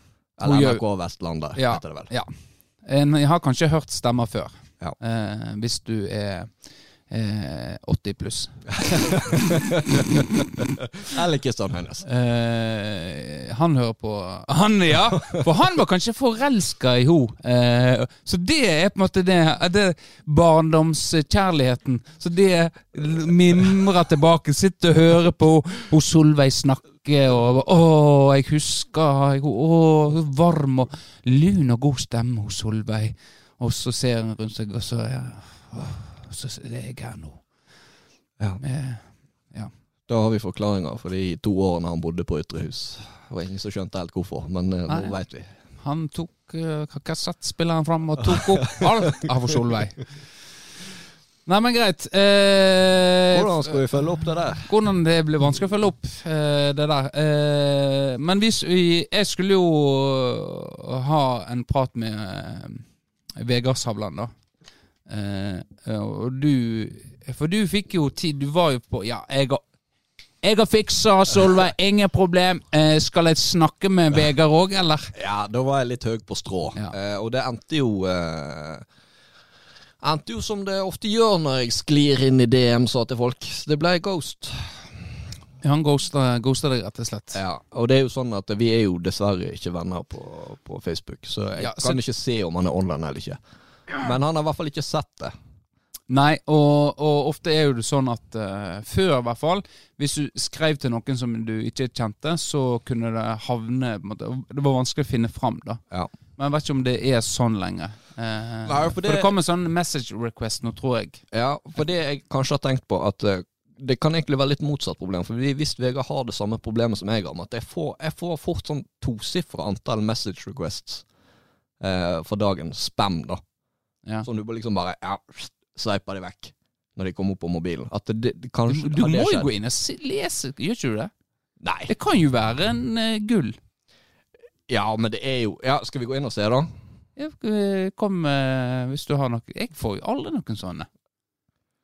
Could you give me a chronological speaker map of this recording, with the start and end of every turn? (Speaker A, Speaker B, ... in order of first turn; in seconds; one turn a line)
Speaker A: 0.4-9.4
Speaker B: 0.4-2.1
Speaker B: 8.8-12.1
Speaker A: 10.1-10.6
Speaker A: 12.0-37.9
Speaker A: 38.6-39.7
Speaker B: 40.1-45.5
Speaker A: 44.9-50.5
Speaker B: 48.2-49.3
Speaker A: 51.5-64.3
Speaker B: 53.3-54.7
Speaker A: 65.0-69.6
Speaker A: 70.4-75.1
Speaker B: 75.1-78.9
Speaker B: 80.0-85.2
Speaker A: 85.6-87.4
Speaker B: 87.3-95.3
Speaker A: 91.6-92.0
Speaker A: 96.1-105.8
Speaker A: 106.4-111.2
Speaker B: 108.6-109.3
Speaker B: 111.3-121.0
Speaker B: 121.8-123.4
Speaker B: 124.2-129.5
Speaker A: 128.7-131.1
Speaker B: 131.6-131.9
Speaker A: 131.9-133.6
Speaker B: 134.7-136.7
Speaker A: 137.2-140.9